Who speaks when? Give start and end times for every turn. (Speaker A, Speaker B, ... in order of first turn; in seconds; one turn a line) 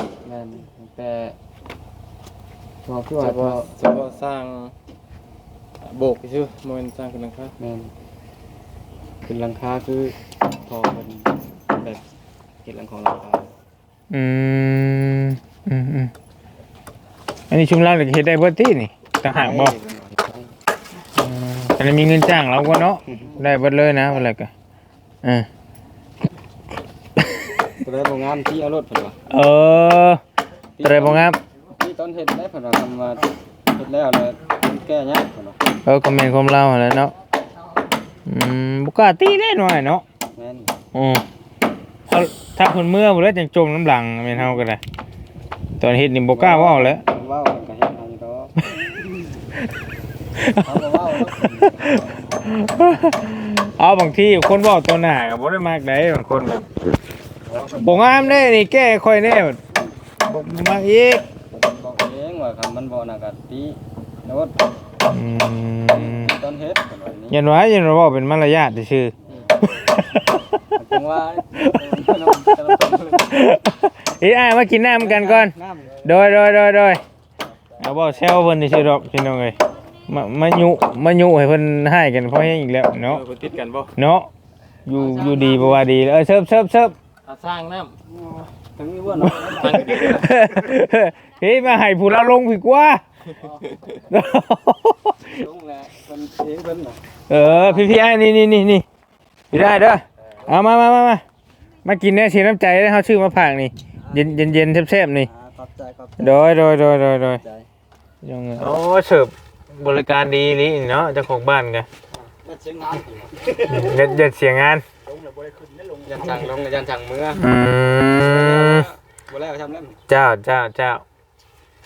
Speaker A: 0.2-1.4
Speaker A: 2.9-3.8
Speaker B: 3.2-4.7
Speaker B: 5.8-7.5
Speaker A: 7.6-7.9
Speaker A: 9.3-10.2
Speaker A: 10.7-12.0
Speaker A: 12.6-13.5
Speaker C: 14.1-16.1
Speaker C: 17.5-19.8
Speaker A: 19.3-20.5
Speaker C: 21.2-24.5
Speaker A: 27.8-29.2
Speaker C: 29.3-30.2
Speaker A: 30.8-35.6
Speaker C: 30.8-31.4
Speaker C: 35.9-37.1
Speaker C: 38.3-40.0
Speaker A: 40.3-40.7
Speaker C: 40.9-41.2
Speaker C: 42.1-44.8
Speaker C: 45.8-47.0
Speaker A: 46.3-48.5
Speaker C: 50.4-56.8
Speaker A: 50.6-52.1
Speaker A: 57.5-58.2
Speaker C: 57.8-59.6
Speaker C: 60.3-61.2
Speaker A: 61.5-64.6
Speaker C: 65.0-66.3
Speaker A: 65.9-67.4
Speaker C: 67.3-69.1
Speaker C: 69.8-70.6
Speaker A: 70.8-73.4
Speaker C: 71.6-77.0
Speaker A: 75.0-76.1
Speaker C: 77.8-83.2
Speaker B: 83.0-83.9
Speaker C: 84.0-84.3
Speaker C: 84.9-87.0
Speaker A: 85.0-85.8
Speaker B: 87.2-88.0
Speaker A: 88.2-90.3
Speaker B: 89.5-90.4
Speaker C: 89.7-93.0
Speaker A: 93.4-93.8
Speaker C: 94.1-95.4
Speaker A: 95.3-97.9
Speaker C: 97.3-98.8
Speaker C: 99.5-101.2
Speaker C: 101.8-105.3
Speaker A: 105.3-106.3
Speaker C: 106.2-107.4
Speaker C: 108.2-111.9
Speaker A: 112.2-113.9
Speaker C: 113.7-114.8
Speaker A: 116.1-117.4
Speaker C: 117.3-118.9
Speaker A: 118.2-120.0
Speaker C: 120.1-121.0